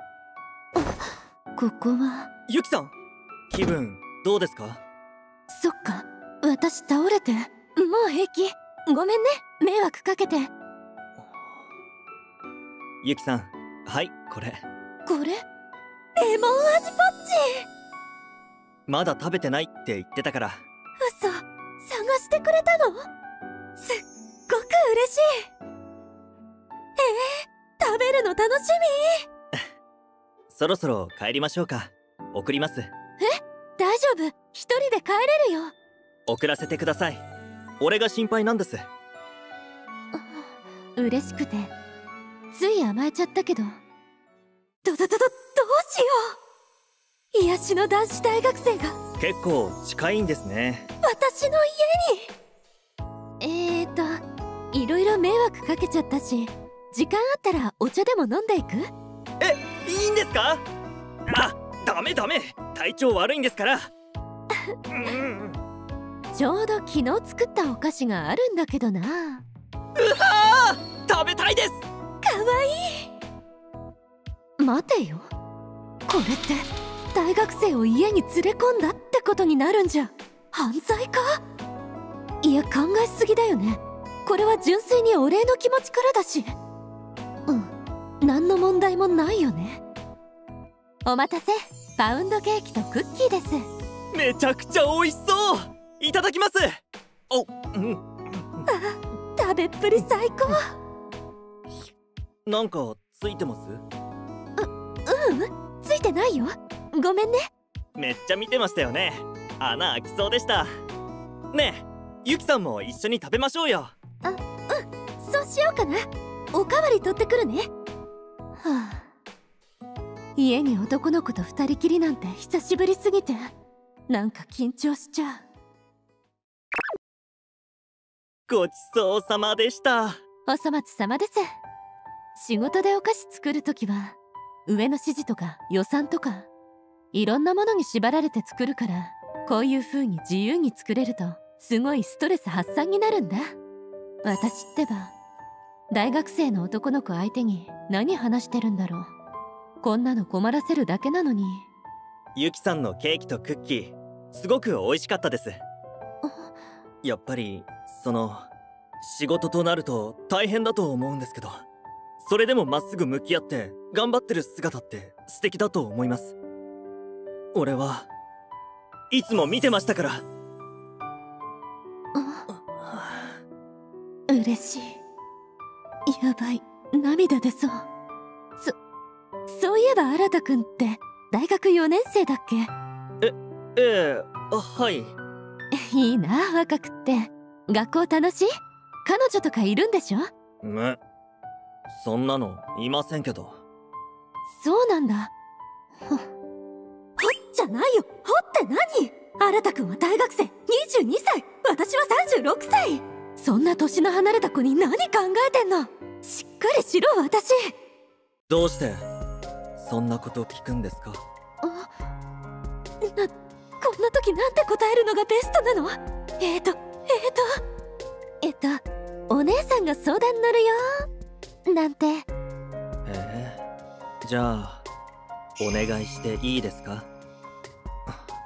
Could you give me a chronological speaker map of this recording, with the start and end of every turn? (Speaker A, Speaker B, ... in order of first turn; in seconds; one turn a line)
Speaker A: 0.8-2.3
Speaker B: 2.5-2.9
Speaker B: 3.5-4.8
Speaker A: 5.5-10.5
Speaker B: 13.0-14.6
Speaker A: 15.1-15.4
Speaker A: 16.1-17.6
Speaker B: 18.9-20.6
Speaker A: 21.0-23.1
Speaker A: 23.8-25.4
Speaker A: 27.0-29.2
Speaker B: 30.5-32.9
Speaker A: 33.2-35.7
Speaker B: 36.3-37.2
Speaker B: 37.8-38.9
Speaker A: 40.1-41.7
Speaker A: 42.5-43.8
Speaker A: 44.8-46.4
Speaker A: 47.3-49.0
Speaker B: 49.2-50.9
Speaker A: 51.0-52.3
Speaker A: 53.4-54.2
Speaker A: 54.7-58.9
Speaker B: 59.4-60.6
Speaker B: 61.3-63.9
Speaker B: 64.9-65.6
Speaker A: 66.3-69.4
Speaker B: 70.0-71.8
Speaker A: 72.2-73.1
Speaker A: 74.6-75.3
Speaker A: 76.1-81.4
Speaker A: 82.4-86.5
Speaker A: 87.5-89.8
Speaker A: 91.0-93.6
Speaker B: 94.1-98.6
Speaker A: 98.7-100.7
Speaker B: 102.5-103.8
Speaker A: 104.6-107.5
Speaker B: 107.9-110.7
Speaker B: 111.5-113.9
Speaker A: 114.2-117.7
Speaker A: 118.6-119.0
Speaker A: 120.3-123.5
Speaker A: 124.1-125.4
Speaker B: 128.5-130.2
Speaker A: 130.4-131.4
Speaker A: 132.3-136.5
Speaker A: 137.1-143.5
Speaker A: 144.2-145.1
Speaker A: 145.9-149.1
Speaker A: 149.8-151.7
Speaker B: 152.3-155.6
Speaker A: 156.2-156.5
Speaker B: 157.0-158.5
Speaker B: 159.0-161.6
Speaker B: 162.2-166.3
Speaker B: 167.5-168.1
Speaker B: 169.1-170.2
Speaker A: 172.1-172.4
Speaker B: 172.5-173.3
Speaker A: 174.3-175.0
Speaker A: 176.1-177.8
Speaker A: 179.5-182.7
Speaker B: 183.2-185.1
Speaker A: 185.7-188.5
Speaker A: 189.0-190.3
Speaker B: 190.6-191.0
Speaker B: 191.9-193.6
Speaker A: 194.5-195.3
Speaker A: 197.2-207.7
Speaker B: 208.5-209.1
Speaker B: 209.8-211.2
Speaker A: 211.6-211.9
Speaker A: 213.0-217.6
Speaker A: 218.4-221.1
Speaker A: 221.7-222.3
Speaker B: 223.0-223.6
Speaker B: 224.2-224.8
Speaker B: 225.6-227.1